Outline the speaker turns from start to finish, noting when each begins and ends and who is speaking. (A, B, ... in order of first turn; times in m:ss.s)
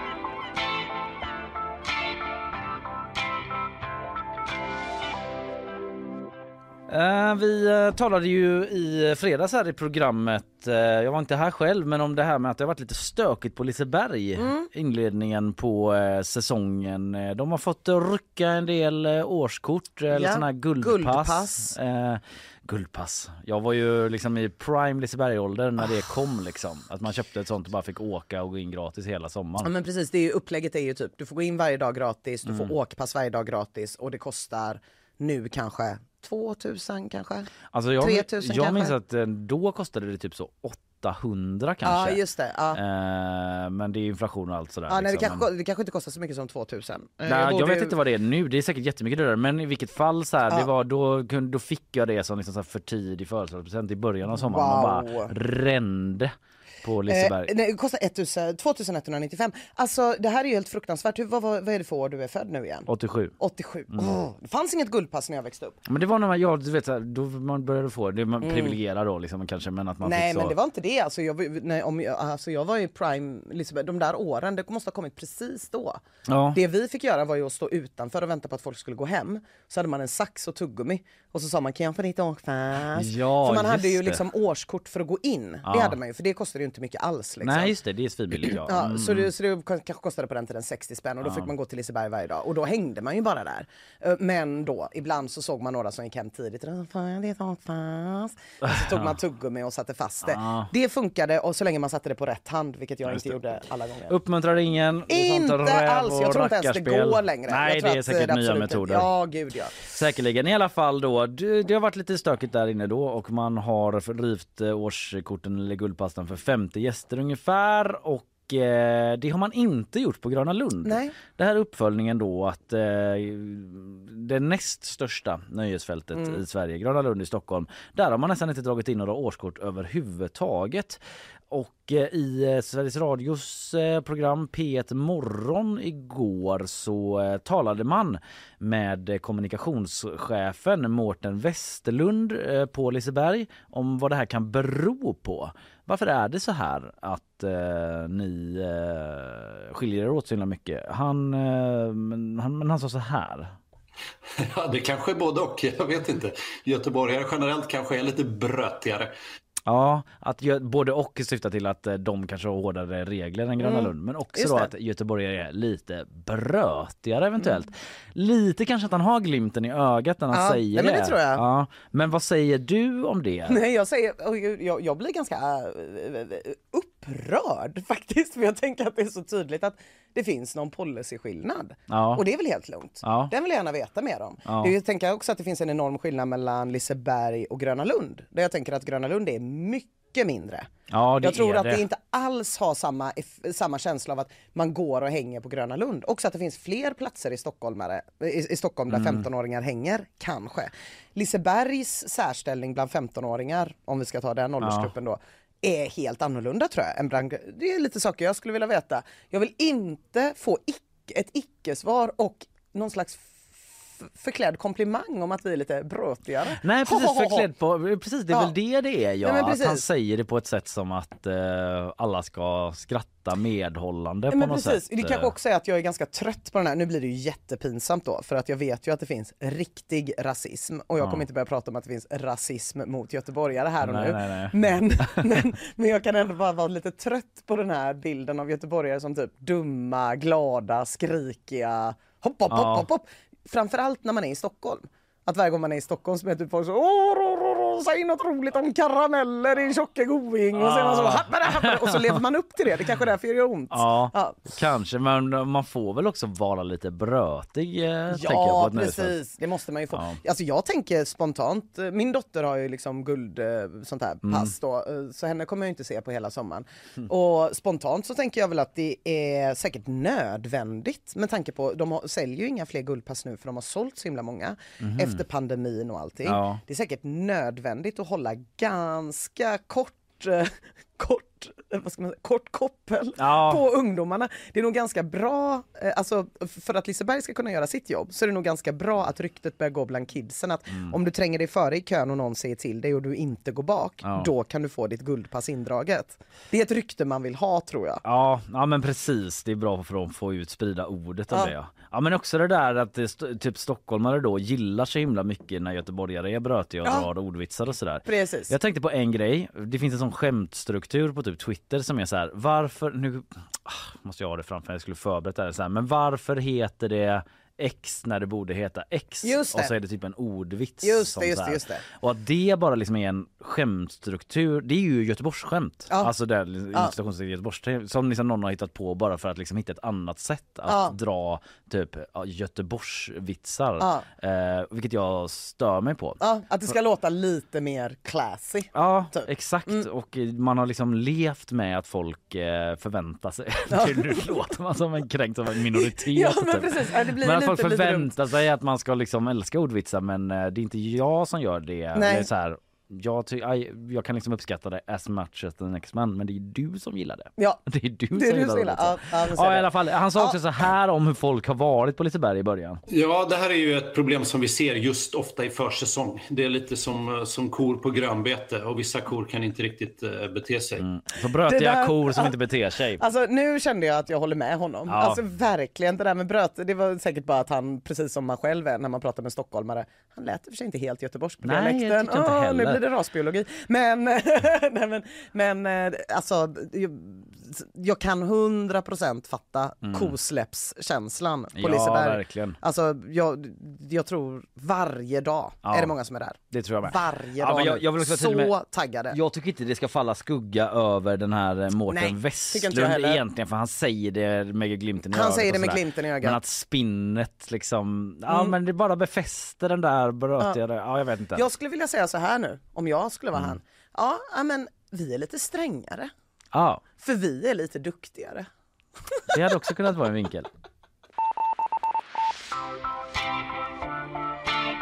0:06.9-0:29.7 A
0:14.4-0:14.7 B
0:20.1-0:21.7 B
0:29.6-0:37.5 B
0:32.4-0:32.7 A
0:37.7-0:42.2 A
0:38.0-0:39.0 B
0:41.8-0:42.8 B
0:42.7-0:45.4 A
0:44.9-0:48.0 B
0:47.2-0:57.5 A
0:54.3-0:55.3 B
0:57.1-1:02.9 B
1:02.9-1:03.3 A
1:03.4-1:05.8 B
1:03.9-1:04.2 A
1:05.8-1:10.5 A
1:08.4-1:08.8 B
1:10.0-1:27.7 B
1:16.3-1:16.6 A
1:22.9-1:24.2 A
1:25.6-1:26.0 A
1:27.4-1:29.3 A
1:28.3-1:44.2 B
1:31.2-1:31.5 A
1:38.6-1:39.1 A
1:40.2-1:40.7 A
1:43.1-1:43.4 A
1:44.1-1:49.1 A
1:45.1-1:49.9 B
1:49.8-2:33.5 A
2:00.8-2:01.1 B
2:34.4-2:39.1 C
2:39.6-2:53.6 A
2:43.6-2:44.7 B
2:50.3-2:51.4 B
2:53.5-3:10.7 B
3:01.9-3:02.2 A
3:03.0-3:03.3 A
3:04.4-3:04.7 A
3:10.9-3:11.8 A
3:11.2-3:33.3 B
3:18.9-3:19.2 A
3:24.6-3:24.9 A
3:34.0-3:37.5 B
3:36.6-3:45.3 A
3:38.3-3:38.5 B
3:39.2-3:39.8 B
3:44.3-4:14.5 B
3:53.8-3:55.3 A
4:02.5-4:02.8 A
4:10.6-4:12.2 A
4:13.7-4:19.2 A
4:18.1-4:58.0 B
4:19.9-4:20.2 A
4:24.2-4:24.5 A
4:34.8-4:35.2 A
4:36.2-4:36.6 A
4:43.2-4:43.6 A
4:54.0-4:54.3 A
4:58.0-5:36.2 A
5:08.0-5:08.5 B
5:19.2-5:19.7 B
5:20.8-5:21.8 B
5:30.6-5:31.0 B
5:33.8-5:34.0 B
5:36.2-5:39.8 B
5:38.7-6:02.8 A
5:43.7-5:44.3 B
5:45.7-5:48.1 B
5:51.9-5:52.3 B
5:58.1-6:00.4 B
6:02.9-6:10.8 C
6:10.8-6:13.0 A
6:11.4-6:12.3 B
6:13.0-6:39.2 B
6:14.9-6:15.2 A
6:21.4-6:22.8 A
6:29.8-6:30.1 A
6:31.5-6:32.6 A
6:35.6-6:35.9 A
6:36.5-6:38.5 A
6:39.1-6:51.4 A
6:41.9-6:43.2 B
6:45.1-6:46.4 B
6:48.3-6:48.5 B
6:51.3-6:56.1 B
6:56.5-6:56.8 A
6:57.0-6:58.5 B
6:59.3-7:00.5 A